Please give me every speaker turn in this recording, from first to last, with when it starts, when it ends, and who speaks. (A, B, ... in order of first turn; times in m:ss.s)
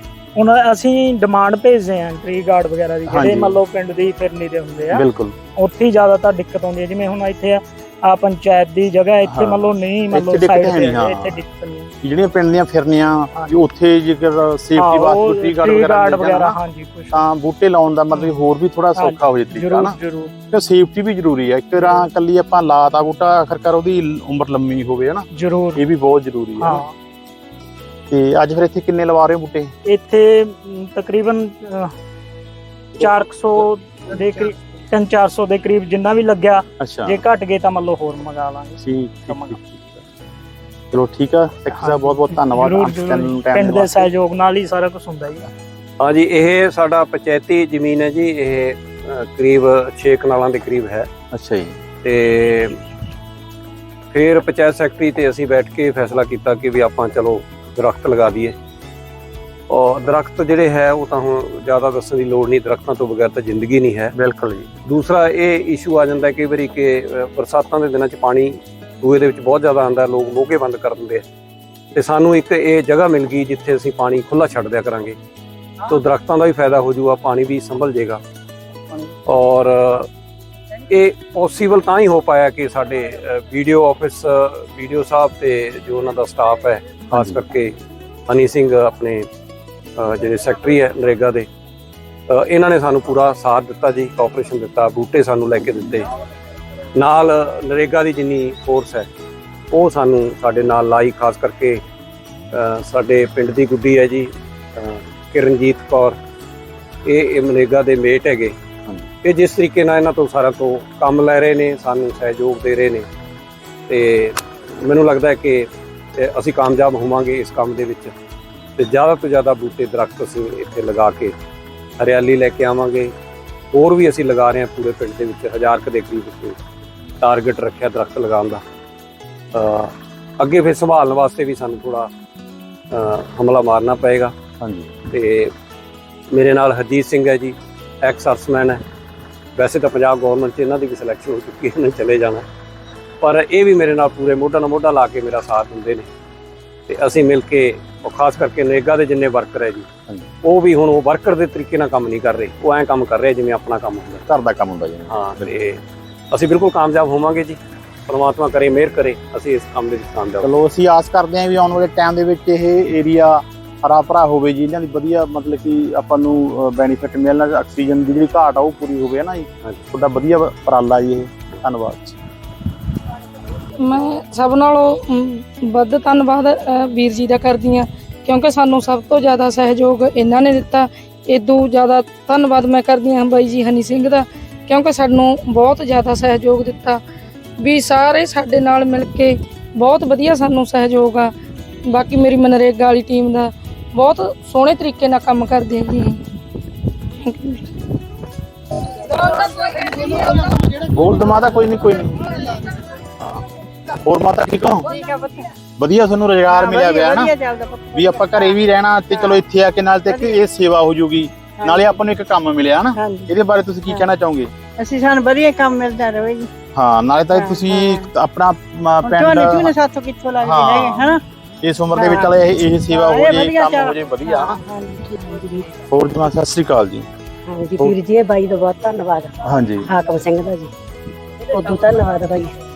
0:00.4-0:11.9 A
0:03.1-0:03.6 B
0:04.9-0:05.4 B
0:09.3-0:11.4 B
0:12.0-0:16.6 B
0:13.3-0:13.6 A
0:14.8-0:17.2 A
0:17.1-0:20.0 B
0:18.1-0:18.4 A
0:19.0-0:20.3 A
0:20.5-0:26.8 B
0:21.8-0:22.1 A
0:25.3-0:25.8 A
0:26.6-0:26.9 A
0:28.1-0:29.7 B
0:29.9-0:31.9 A
0:32.9-0:39.6 A
0:36.8-0:37.2 B
0:38.8-0:39.8 B
0:40.9-0:44.1 B
0:41.8-0:45.5 A
0:46.0-0:51.1 C
0:51.3-0:51.8 B
0:52.0-0:52.8 C
0:54.1-0:58.5 C
0:59.7-1:04.1 C
1:04.2-1:04.7 B
1:04.9-1:11.2 C
1:11.9-1:15.2 C
1:15.8-1:18.2 C
1:19.3-1:20.1 C
1:20.9-1:27.7 C
1:27.1-1:27.4 B
1:28.3-1:29.3 C
1:30.0-1:31.5 C
1:32.3-1:36.1 C
1:37.0-1:39.1 C
1:39.7-1:41.8 C
1:42.5-1:46.2 C
1:47.1-1:48.5 C
1:49.2-1:53.1 C
1:53.9-1:58.1 C
1:58.8-2:01.4 C
2:02.0-2:03.1 C
2:03.7-2:06.6 C
2:07.2-2:08.6 C
2:09.5-2:12.1 C
2:12.9-2:14.3 C
2:14.6-2:14.9 B
2:15.1-2:15.5 C
2:16.3-2:18.8 C
2:19.6-2:22.4 C
2:23.2-2:26.1 C
2:26.9-2:29.9 C
2:30.4-2:34.2 C
2:34.3-2:35.5 B
2:35.1-2:40.5 C
2:40.4-2:52.2 B
2:53.8-3:07.0 D
3:07.6-3:11.3 D
3:11.9-3:16.2 D
3:17.2-3:17.7 D
3:19.0-3:20.5 D
3:20.8-3:22.6 B
3:24.0-3:24.9 B
3:24.9-3:25.5 E
3:25.8-3:27.3 B
3:26.5-3:29.4 E
3:27.9-3:34.5 B
3:31.6-3:32.0 E
3:33.0-3:33.3 E
3:34.8-3:36.5 E
3:36.8-3:39.7 B
3:37.3-3:38.1 E
3:39.0-3:41.2 E
3:40.4-3:41.1 B
3:41.6-3:44.6 B
3:41.9-3:45.6 E
3:45.9-3:47.1 B
3:47.5-3:50.7 F
3:49.4-3:49.9 B
3:51.5-3:52.6 F